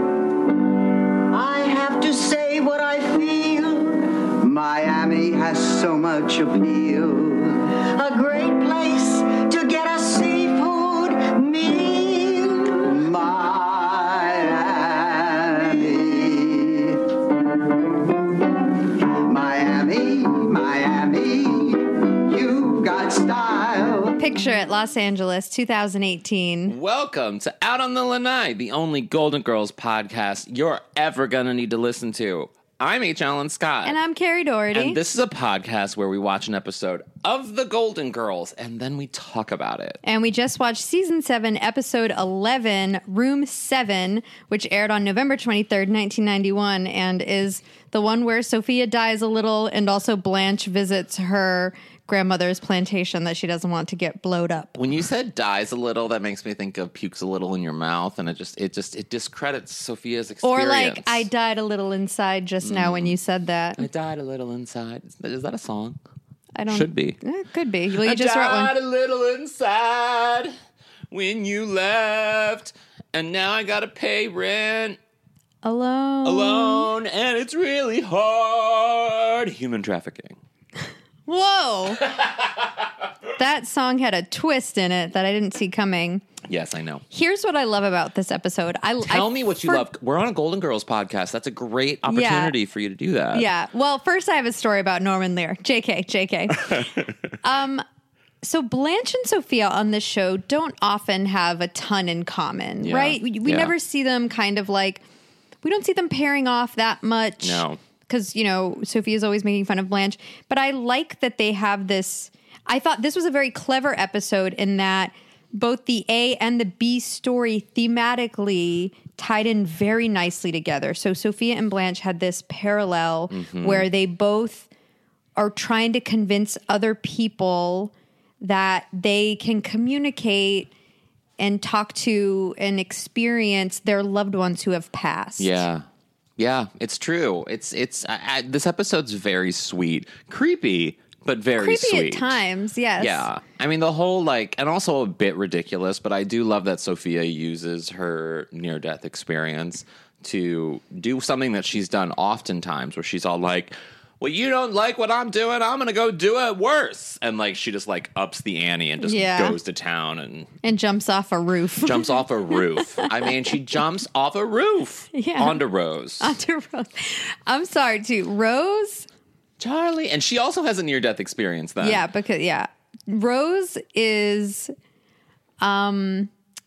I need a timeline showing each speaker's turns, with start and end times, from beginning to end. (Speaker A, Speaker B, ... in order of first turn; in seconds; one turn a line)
Speaker A: 1.3-17.2
Speaker A: 19.0-24.2
Speaker B: 24.2-26.8
Speaker C: 26.7-34.0
Speaker B: 33.9-35.0
Speaker C: 34.7-40.0
Speaker B: 40.0-54.8
Speaker C: 54.8-61.3
Speaker B: 60.4-63.8
Speaker C: 62.6-63.1
Speaker C: 63.8-66.0
Speaker B: 66.6-68.7
Speaker C: 66.7-67.2
Speaker C: 67.9-70.5
Speaker C: 71.1-75.0
Speaker B: 75.6-76.9
Speaker C: 76.2-80.4
Speaker B: 81.3-82.1
Speaker B: 83.4-86.3
Speaker C: 86.5-87.0
Speaker B: 87.1-89.8
Speaker C: 89.0-93.5
Speaker B: 92.1-92.5
Speaker B: 93.3-97.8
Speaker B: 98.4-105.0
Speaker C: 102.8-103.8
Speaker B: 105.6-124.7
Speaker C: 107.4-107.8
Speaker C: 123.3-123.9
Speaker B: 125.4-130.7
Speaker B: 131.4-135.6
Speaker C: 135.4-135.8
Speaker C: 136.4-142.4
Speaker B: 141.6-143.3
Speaker C: 143.0-160.5
Speaker B: 159.0-159.6
Speaker B: 160.6-163.3
Speaker C: 161.8-166.3
Speaker B: 165.1-165.6
Speaker B: 166.2-169.1
Speaker C: 169.6-172.0
Speaker B: 171.8-174.7
Speaker B: 175.6-176.3